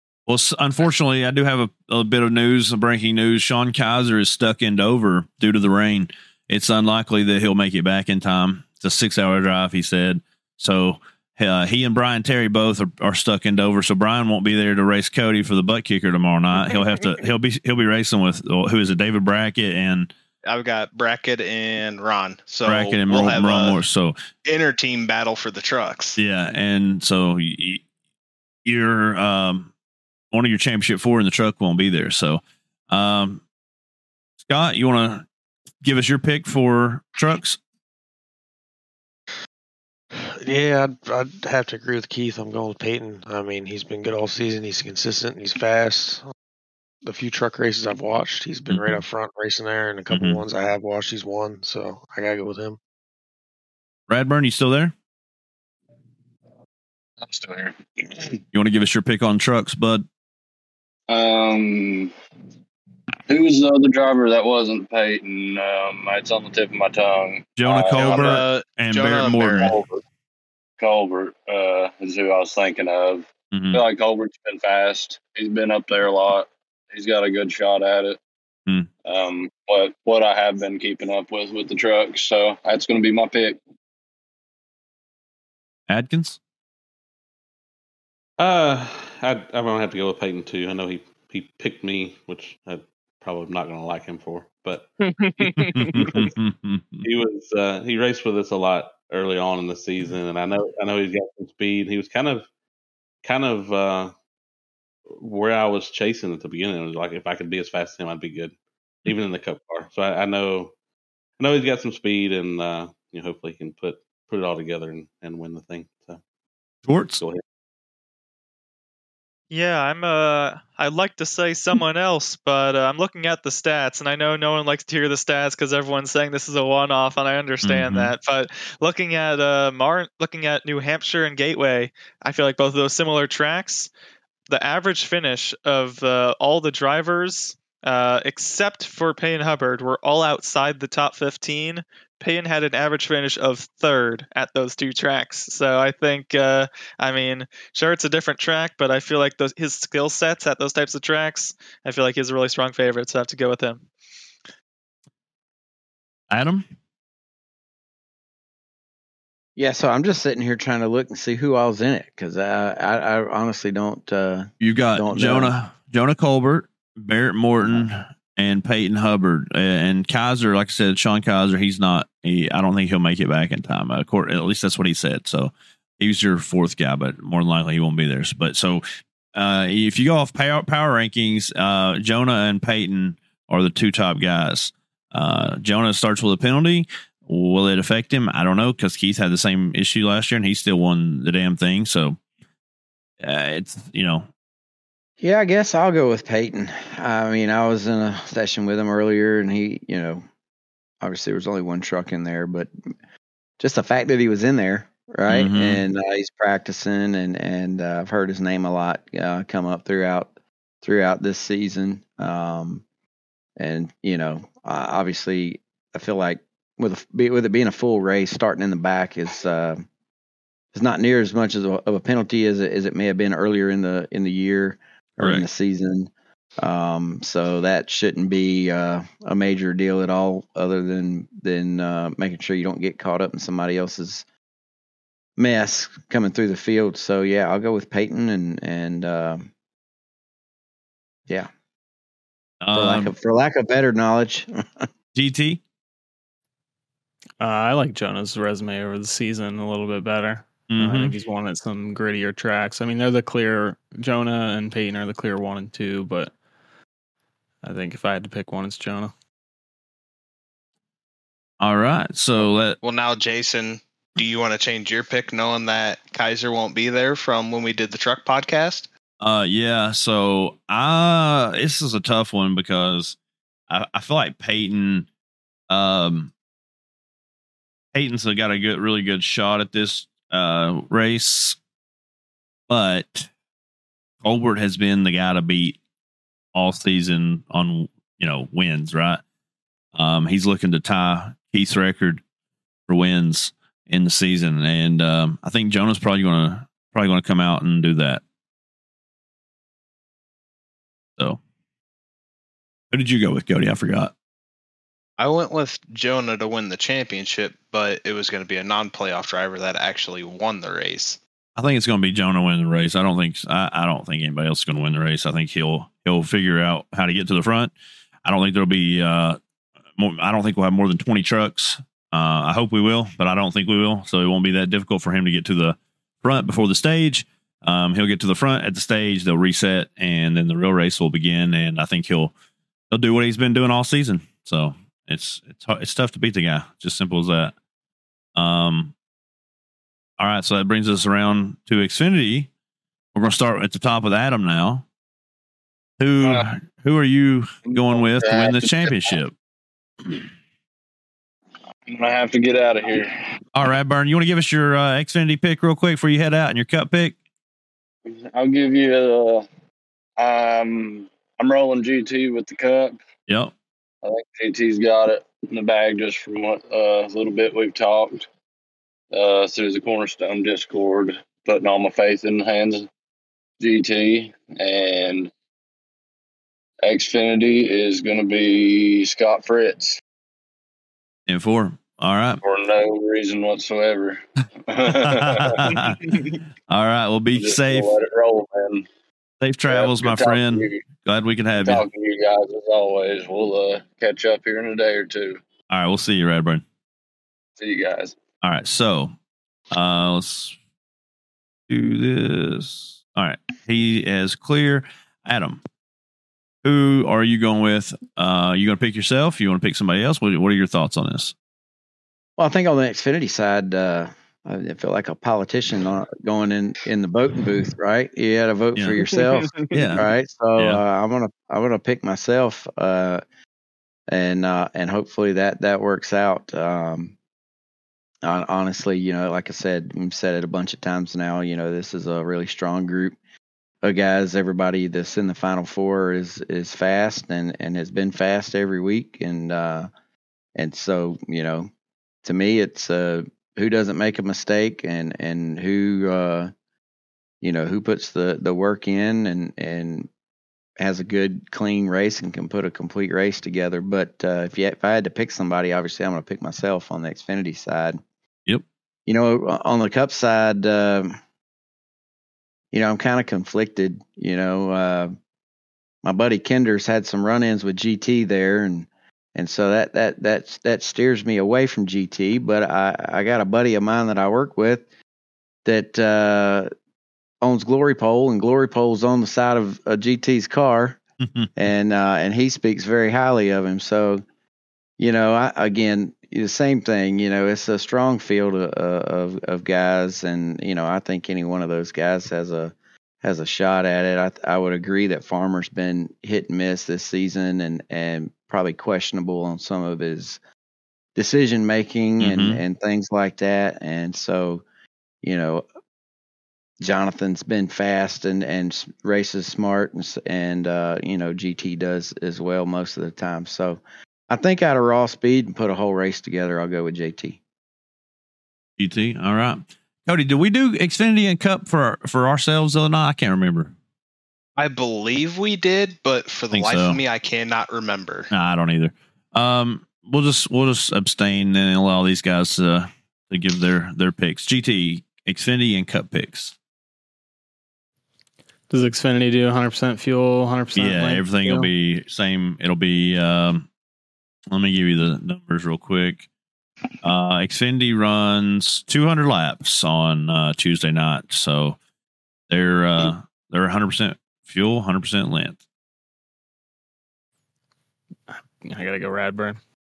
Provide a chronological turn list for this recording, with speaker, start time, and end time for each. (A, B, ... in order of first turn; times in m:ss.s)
0:00.3-0:20.1 A
0:20.4-0:23.8 B
0:22.7-0:24.2 A
0:24.4-0:26.2 B
0:26.2-0:27.8 A
0:28.7-0:29.7 A
0:30.3-0:33.4 A
0:34.4-0:35.3 A
0:35.8-0:37.6 A
0:40.2-0:46.3 C
0:47.0-0:52.8 C
0:48.7-0:49.0 A
0:50.1-0:50.4 A
0:54.1-0:54.9 A
0:57.2-0:58.4 D
0:58.5-1:00.0 A
1:01.1-1:02.1 D
1:03.3-1:08.4 D
1:07.6-1:09.7 A
1:08.0-1:09.8 B
1:09.6-1:10.0 D
1:10.8-1:18.2 D
1:13.5-1:13.8 A
1:19.0-1:23.6 D
1:25.9-1:26.4 A
1:28.4-1:34.9 E
1:35.4-1:36.2 E
1:35.4-1:37.0 A
1:37.0-1:42.5 E
1:43.2-1:44.1 E
1:45.2-1:50.7 E
1:51.4-1:56.2 E
1:56.9-1:57.2 A
1:59.5-2:13.9 F
2:07.6-2:08.1 A
2:14.5-2:33.9 F
2:36.3-2:36.6 A
2:39.6-2:45.6 G
2:44.6-3:12.2 A
3:13.2-3:14.3 A
3:15.2-3:20.2 G
3:21.0-3:22.7 G
3:23.6-3:30.3 G
3:25.3-3:25.8 A
3:30.8-3:32.8 G
3:33.6-3:39.9 G
3:40.7-3:54.2 G
3:45.2-3:45.4 A
3:55.4-3:59.5 G
4:02.6-4:03.1 A
4:02.7-4:04.8 G
4:05.1-4:05.6 A
4:07.4-4:16.3 H
4:10.7-4:11.1 A
4:17.6-4:19.1 H
4:21.6-4:22.8 A
4:22.4-4:28.9 B
4:29.2-4:33.2 A
4:33.7-4:35.1 A
4:35.7-4:36.3 A
4:37.9-4:41.6 A
4:42.7-4:43.3 A
4:44.2-4:45.8 A
4:46.5-4:49.2 A
4:50.0-4:52.2 A
4:52.9-4:58.2 A
5:02.9-5:04.1 A
5:05.2-5:11.2 B
5:11.6-5:17.7 A
5:18.2-5:19.4 A
5:20.0-5:32.3 A
5:32.9-5:37.5 A
5:38.4-5:38.9 A
5:40.2-5:42.5 A
5:43.2-5:44.8 A
5:46.0-5:49.3 A
5:47.6-5:49.2 D
5:51.9-5:53.4 D
5:53.5-5:57.2 A
5:58.1-5:59.5 D
6:00.2-6:03.0 D
6:03.3-6:03.5 A
6:04.0-6:08.3 D
6:09.1-6:12.9 D
6:13.6-6:15.3 D
6:16.8-6:20.0 D
6:21.3-6:22.4 A
6:22.4-6:26.4 D
6:24.9-6:26.2 A
6:26.7-6:27.9 A
6:27.4-6:28.9 D
6:29.4-6:31.8 A
6:29.7-6:30.8 D
6:31.6-6:35.4 D
6:35.7-6:36.6 A
6:37.6-6:38.2 D
6:38.4-6:39.1 A
6:39.7-6:40.6 A
6:41.7-6:45.6 A
6:46.6-6:51.3 A
6:52.4-7:03.2 G
6:59.7-7:00.1 A
7:04.1-7:07.1 G
7:08.2-7:13.2 G
7:13.8-7:19.9 G
7:20.6-7:21.7 G
7:22.2-7:26.5 G
7:27.4-7:30.1 G
7:30.8-7:38.0 G
7:39.1-7:41.2 G
7:42.7-7:45.1 G
7:46.0-7:54.8 G
7:55.6-7:56.7 G
7:57.4-8:01.0 G
8:01.2-8:01.5 A
8:01.6-8:04.2 G
8:05.0-8:20.4 G
8:21.2-8:24.6 G
8:22.2-8:22.6 A
8:25.2-8:25.6 G
8:26.8-8:37.4 G
8:38.8-8:43.7 A
8:44.6-8:48.3 B
8:46.5-8:47.0 A
8:48.3-8:56.6 A
8:58.7-9:01.7 H
9:00.7-9:03.7 A
9:04.5-9:06.3 A
9:07.0-9:11.8 A
9:12.5-9:15.6 A
9:18.3-9:19.6 H